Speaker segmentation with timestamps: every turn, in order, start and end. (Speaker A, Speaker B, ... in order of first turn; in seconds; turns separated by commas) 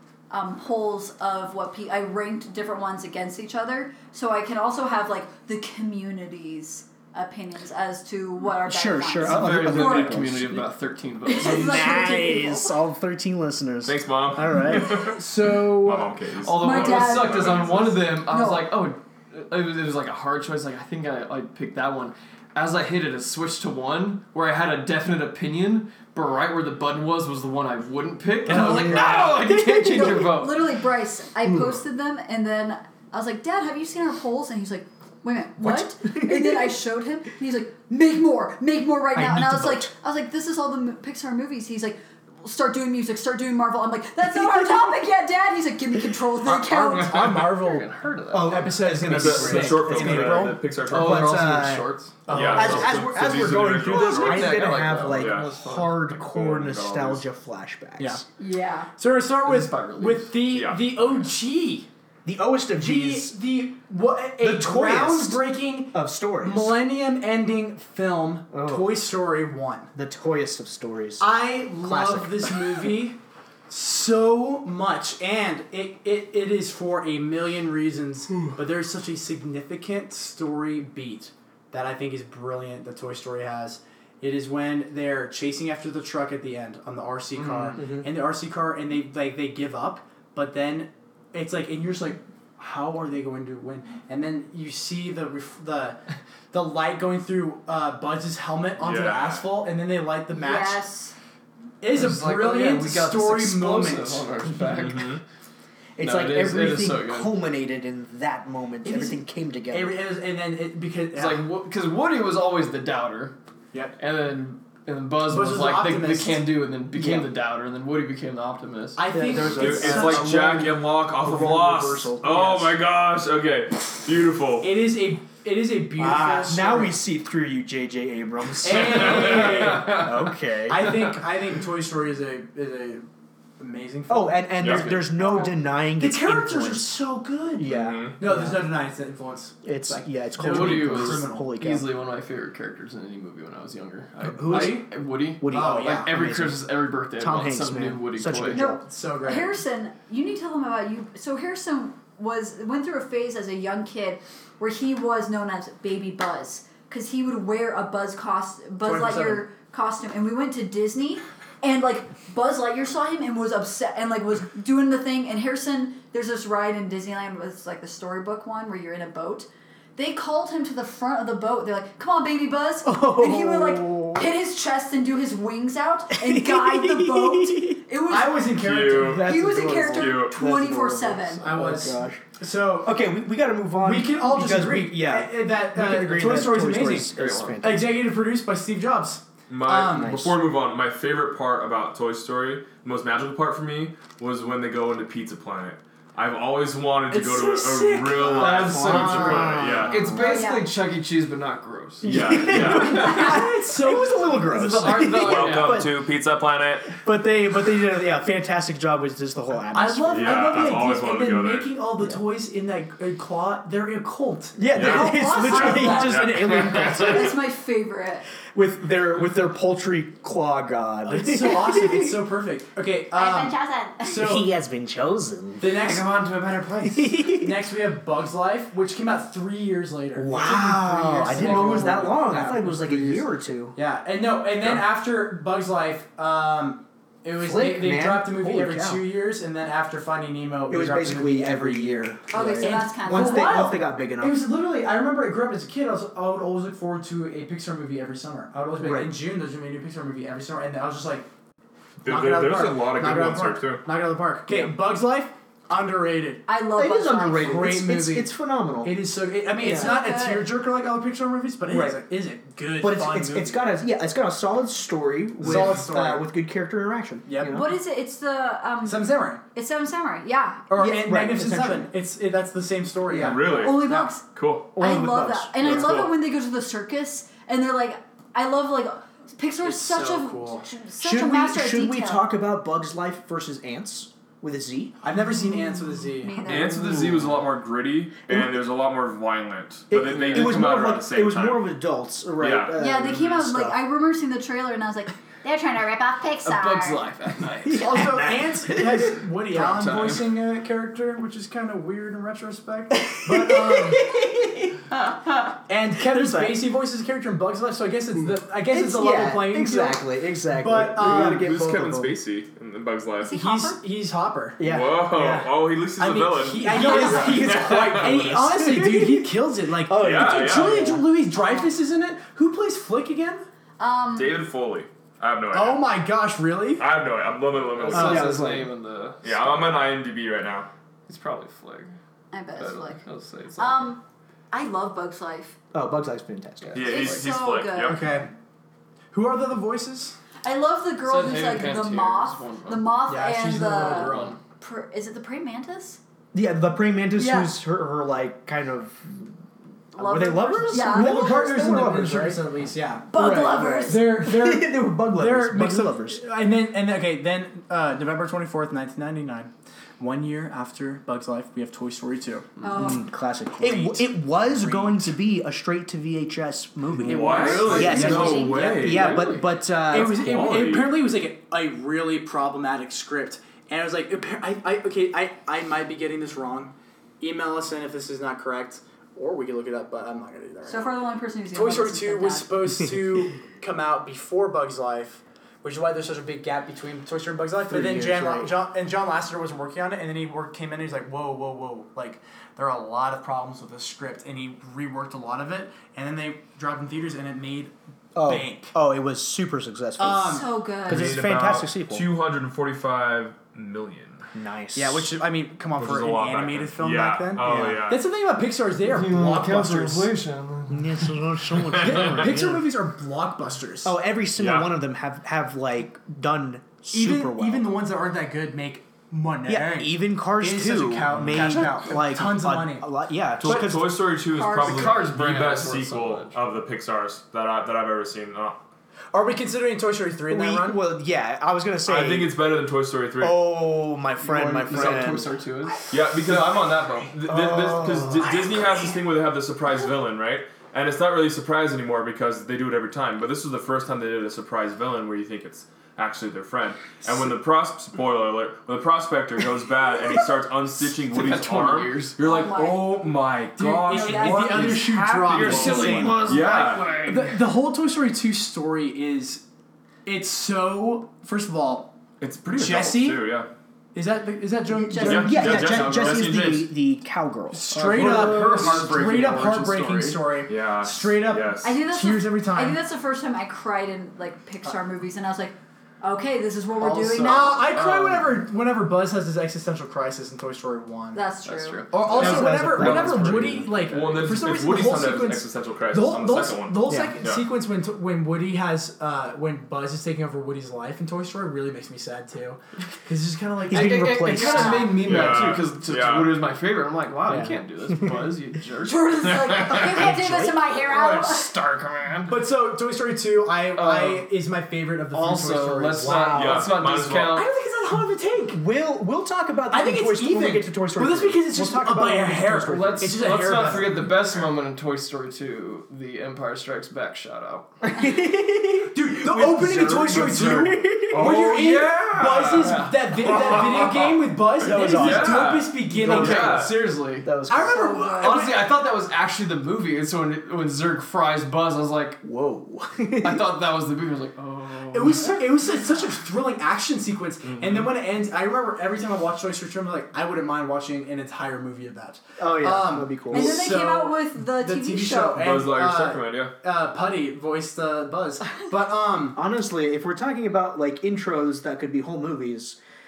Speaker A: 0.3-10.2, Speaker B: 8.7-10.7, Speaker C: 9.2-12.0, Speaker A: 11.3-12.8, Speaker B: 11.3-15.1, Speaker D: 13.8-18.1, Speaker E: 15.1-16.2, Speaker C: 16.4-30.6, Speaker A: 16.6-17.5, Speaker A: 18.3-18.8, Speaker B: 28.5-30.4, Speaker E: 28.5-29.3, Speaker A: 29.8-47.4, Speaker B: 35.6-36.8, Speaker B: 39.1-39.9, Speaker B: 44.3-44.9, Speaker E: 46.8-47.9, Speaker C: 46.9-48.8, Speaker B: 48.3-58.2, Speaker E: 48.5-53.1, Speaker D: 49.0-51.4, Speaker C: 50.9-56.0, Speaker D: 52.3-55.5, Speaker D: 56.1-57.2, Speaker E: 58.0-58.2, Speaker A: 58.4-58.9, Speaker E: 59.0-61.9, Speaker C: 59.5-60.4, Speaker D: 60.5-61.2, Speaker B: 62.2-63.4, Speaker E: 62.7-69.9, Speaker B: 64.4-66.8, Speaker B: 68.5-68.9, Speaker B: 70.0-72.6, Speaker E: 71.2-96.0, Speaker C: 87.4-87.8, Speaker B: 87.8-88.1, Speaker E: 96.5-100.8, Speaker D: 98.8-99.5, Speaker A: 100.3-101.2, Speaker E: 101.8-104.3, Speaker C: 101.9-105.2, Speaker D: 104.7-105.2, Speaker B: 106.0-110.0, Speaker C: 106.0-107.4, Speaker E: 108.8-111.5, Speaker C: 111.1-113.3, Speaker C: 114.0-119.1, Speaker E: 115.3-116.5, Speaker B: 116.9-117.3, Speaker E: 119.0-120.6, Speaker B: 119.1-122.8, Speaker D: 119.4-124.8, Speaker E: 124.6-127.0, Speaker B: 126.0-131.0, Speaker E: 128.6-133.1, Speaker C: 129.2-129.5, Speaker E: 133.6-135.0, Speaker B: 134.1-136.9, Speaker D: 134.6-134.9, Speaker A: 135.2-135.5, Speaker E: 136.0-141.5, Speaker B: 137.6-138.7, Speaker D: 137.7-138.2, Speaker B: 139.6-141.9, Speaker C: 140.4-148.6, Speaker B: 144.2-148.8, Speaker E: 144.5-144.9, Speaker E: 145.5-146.1, Speaker A: 148.5-178.5, Speaker E: 148.8-149.6, Speaker E: 158.8-159.4, Speaker B: 172.8-174.3, Speaker B: 176.1-177.8, Speaker E: 178.1-180.0, Speaker D: 178.5-179.3, Speaker A: 179.2-181.5, Speaker B: 179.2-182.2, Speaker D: 179.9-180.4, Speaker E: 181.4-183.0, Speaker B: 182.8-187.9, Speaker E: 183.8-190.3, Speaker C: 187.1-187.6, Speaker D: 189.5-200.2, Speaker B: 190.0-190.3, Speaker E: 197.1-199.6, Speaker B: 198.1-200.4, Speaker C: 198.4-202.4, Speaker A: 200.2-200.7, Speaker D: 202.0-203.2, Speaker B: 202.0-206.0, Speaker E: 202.5-205.2, Speaker C: 204.5-205.9, Speaker D: 205.1-207.0, Speaker B: 207.0-210.9, Speaker E: 209.7-216.1, Speaker D: 210.1-211.8, Speaker B: 214.6-217.3, Speaker D: 214.7-217.1, Speaker A: 214.8-218.3, Speaker E: 216.7-217.2, Speaker B: 218.5-222.3, Speaker E: 221.1-224.5, Speaker A: 223.2-224.0, Speaker B: 224.1-226.0, Speaker E: 225.6-251.3, Speaker B: 226.8-227.6, Speaker B: 230.2-233.8, Speaker C: 231.4-231.9, Speaker B: 237.3-239.1, Speaker B: 240.7-244.4, Speaker A: 242.3-243.7, Speaker B: 248.8-249.2, Speaker D: 252.0-253.8, Speaker E: 252.1-256.4, Speaker B: 254.5-254.7, Speaker A: 256.5-257.7, Speaker B: 256.8-258.9, Speaker E: 257.3-258.3, Speaker E: 258.8-263.7, Speaker A: 259.6-260.5, Speaker B: 259.6-260.0, Speaker B: 261.7-262.0, Speaker B: 262.8-267.7, Speaker E: 265.4-266.3, Speaker E: 267.3-267.6, Speaker A: 267.4-270.7, Speaker E: 268.8-269.4, Speaker E: 270.7-274.1, Speaker B: 270.7-271.9, Speaker B: 273.1-273.4, Speaker D: 273.2-274.8, Speaker A: 273.5-274.2, Speaker B: 274.8-275.9, Speaker A: 274.8-282.3, Speaker D: 275.6-276.2, Speaker E: 279.6-280.7, Speaker B: 281.0-285.0, Speaker E: 285.0-286.4, Speaker A: 285.5-286.9, Speaker D: 286.4-291.6, Speaker B: 286.7-287.2, Speaker B: 289.9-293.8, Speaker C: 289.9-290.6, Speaker D: 292.4-293.2, Speaker A: 292.8-297.0, Speaker C: 296.4-298.2, Speaker B: 297.7-299.2, Speaker E: 297.7-304.1, Speaker C: 299.5-300.4, Speaker B: 302.9-304.8, Speaker E: 305.7-311.5, Speaker B: 305.9-306.6, Speaker B: 308.6-312.1, Speaker D: 311.0-313.4, Speaker A: 313.2-313.8, Speaker E: 313.3-323.5, Speaker B: 314.6-315.2, Speaker D: 314.6-318.4, Speaker B: 316.6-321.1, Speaker A: 316.6-317.3, Speaker D: 319.9-320.8, Speaker A: 323.8-324.4, Speaker D: 324.1-325.9, Speaker E: 325.5-326.9, Speaker D: 326.8-328.4, Speaker C: 327.8-329.8, Speaker B: 327.9-328.7, Speaker E: 327.9-328.3, Speaker D: 329.2-330.7, Speaker C: 331.1-332.0, Speaker A: 332.3-333.0, Speaker C: 332.6-333.9, Speaker A: 333.6-335.6, Speaker B: 335.7-337.1, Speaker C: 336.7-337.1, Speaker D: 336.7-338.1, Speaker A: 336.9-338.0, Speaker E: 337.9-338.3, Speaker E: 339.1-340.2, Speaker A: 340.4-346.0, Speaker C: 341.0-342.9, Speaker E: 343.1-344.4, Speaker C: 343.7-344.4, Speaker B: 346.3-349.4, Speaker A: 347.1-347.6, Speaker A: 349.9-351.5, Speaker B: 350.0-352.4, Speaker E: 350.0-362.5, Speaker A: 353.1-354.1, Speaker B: 353.9-356.2, Speaker A: 362.6-363.1, Speaker B: 362.7-370.3, Speaker D: 367.0-371.0, Speaker C: 367.1-369.5, Speaker E: 367.2-369.1, Speaker A: 367.8-368.6, Speaker E: 369.9-380.9, Speaker A: 380.7-382.5, Speaker E: 381.5-398.8, Speaker B: 387.7-388.6, Speaker B: 398.1-402.1, Speaker E: 400.0-400.5, Speaker A: 400.3-401.2, Speaker D: 400.9-404.2, Speaker B: 404.3-405.1, Speaker E: 404.8-410.1, Speaker D: 405.8-408.1, Speaker C: 408.8-411.2, Speaker B: 410.7-412.7, Speaker D: 411.7-412.1, Speaker E: 411.8-413.9, Speaker B: 413.8-417.7, Speaker D: 414.4-414.7, Speaker E: 416.9-422.9, Speaker B: 419.4-424.0, Speaker D: 421.2-421.6, Speaker D: 423.4-428.6, Speaker A: 424.3-425.0, Speaker C: 424.5-426.4, Speaker E: 429.1-430.8, Speaker B: 430.3-432.4, Speaker D: 431.9-433.4, Speaker B: 433.2-435.3, Speaker C: 434.2-437.1, Speaker D: 435.9-457.0, Speaker B: 437.3-438.6, Speaker C: 451.0-452.2, Speaker A: 452.2-453.0, Speaker E: 453.6-456.5, Speaker A: 453.9-454.8, Speaker C: 455.2-457.5, Speaker E: 457.0-459.4, Speaker E: 460.1-462.0, Speaker D: 462.2-463.5, Speaker E: 462.5-463.3, Speaker E: 463.9-465.9, Speaker A: 464.7-465.4, Speaker B: 465.0-468.7, Speaker D: 465.0-466.7, Speaker C: 465.4-466.3, Speaker E: 467.5-472.8, Speaker C: 467.7-470.2, Speaker D: 470.5-471.8, Speaker A: 471.6-477.7, Speaker E: 476.8-481.2, Speaker C: 477.4-478.3, Speaker A: 481.1-481.8, Speaker C: 481.4-484.0, Speaker E: 481.9-495.6, Speaker D: 482.1-487.5, Speaker B: 482.2-483.6, Speaker B: 486.9-487.2, Speaker B: 493.7-494.8, Speaker C: 493.7-499.6, Speaker A: 494.4-495.0, Speaker D: 495.0-496.4, Speaker B: 497.3-498.1, Speaker A: 498.8-501.5, Speaker D: 499.3-500.1, Speaker B: 500.0-500.5, Speaker C: 500.8-502.4, Speaker E: 502.3-506.8, Speaker C: 503.7-504.3, Speaker C: 505.1-507.5, Speaker D: 506.3-507.4, Speaker E: 507.3-508.6, Speaker B: 508.5-513.2, Speaker E: 509.7-514.0, Speaker C: 512.7-517.7, Speaker D: 514.1-514.5, Speaker B: 517.8-521.3, Speaker E: 518.9-526.6, Speaker D: 519.6-524.1, Speaker C: 521.4-523.9, Speaker B: 524.6-526.6, Speaker D: 524.8-526.8, Speaker C: 525.0-527.3, Speaker B: 527.2-527.9, Speaker E: 527.5-528.6, Speaker A: 527.7-528.3, Speaker C: 528.2-532.2, Speaker B: 532.2-533.5, Speaker C: 533.2-535.4, Speaker E: 534.9-549.4, Speaker D: 537.5-537.9, Speaker B: 542.4-543.7, Speaker A: 543.3-545.5, Speaker D: 545.3-546.5, Speaker B: 549.4-552.8